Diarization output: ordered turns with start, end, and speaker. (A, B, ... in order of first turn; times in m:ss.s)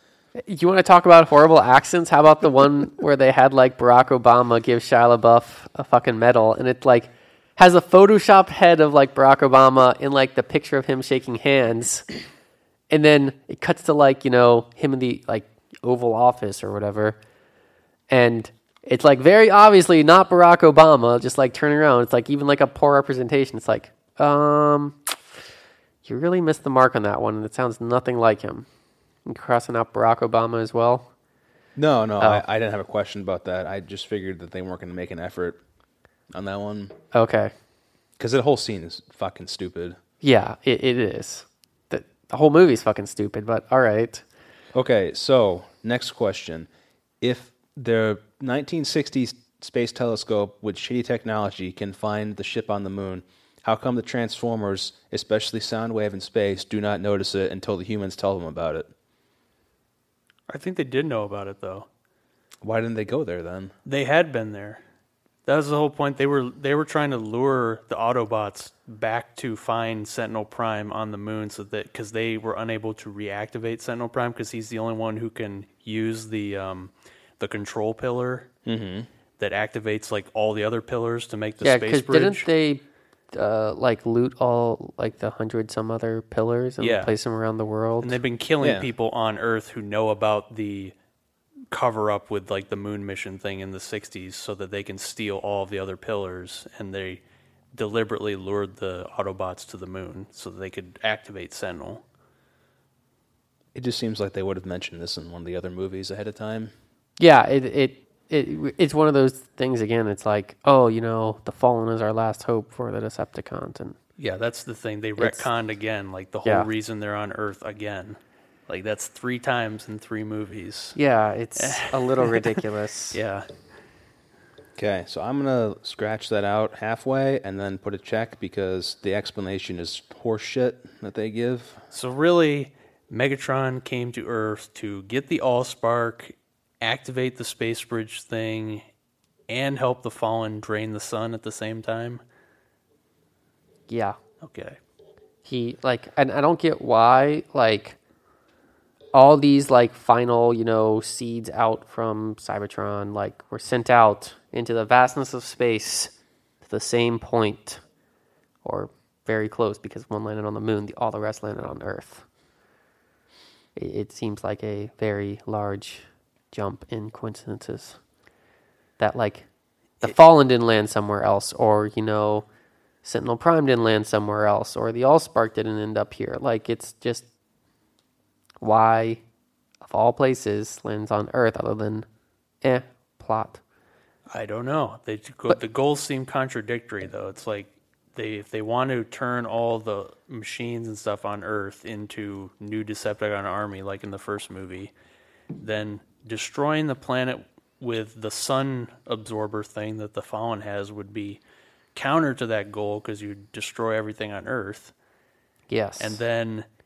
0:00.4-0:12.2 A
0:12.9-0:17.2 A
0:18.1-0:25.4 A
0:26.0-0:28.7 A
0:29.2-0:31.1 A
0:31.8-0:35.6 B
0:36.3-0:37.0 B
0:37.1-0:37.5 A
0:38.2-0:40.0 B
0:40.2-0:44.2 A
0:44.7-0:46.7 B
0:47.2-0:58.9 B
1:00.5-1:01.9 C
1:02.6-1:03.7 B
1:03.8-1:04.8 C
1:05.4-1:18.5 C
1:18.6-1:19.1 B
1:19.4-1:22.5 C
1:21.6-1:28.2 A
1:26.8-1:27.1 C
1:28.0-1:30.9 C
1:28.6-1:28.9 B
1:31.7-1:37.2 C
1:37.7-1:42.0 C
1:43.8-1:46.7 B
1:47.2-1:54.0 A
1:54.2-2:01.0 C
1:55.2-1:55.5 A
1:56.4-1:56.7 A
2:01.0-2:03.2 A
2:01.6-2:03.5 C
2:04.8-2:11.8 B
2:11.9-2:18.8 C
2:19.5-2:22.2 C
2:23.9-2:24.2 A
2:24.4-2:24.8 C
2:25.4-2:28.0 A
2:29.1-2:37.8 A
2:38.6-2:42.3 A
2:43.8-2:48.0 A
2:49.0-2:49.5 A
2:50.0-2:52.5 A
2:53.0-2:57.3 A
2:58.6-2:59.2 A
2:59.8-3:02.1 A
3:02.6-3:03.6 A
3:04.3-3:14.9 C
3:15.6-3:21.4 C
3:22.0-3:24.9 C
3:25.7-3:26.2 A
3:26.0-3:26.7 C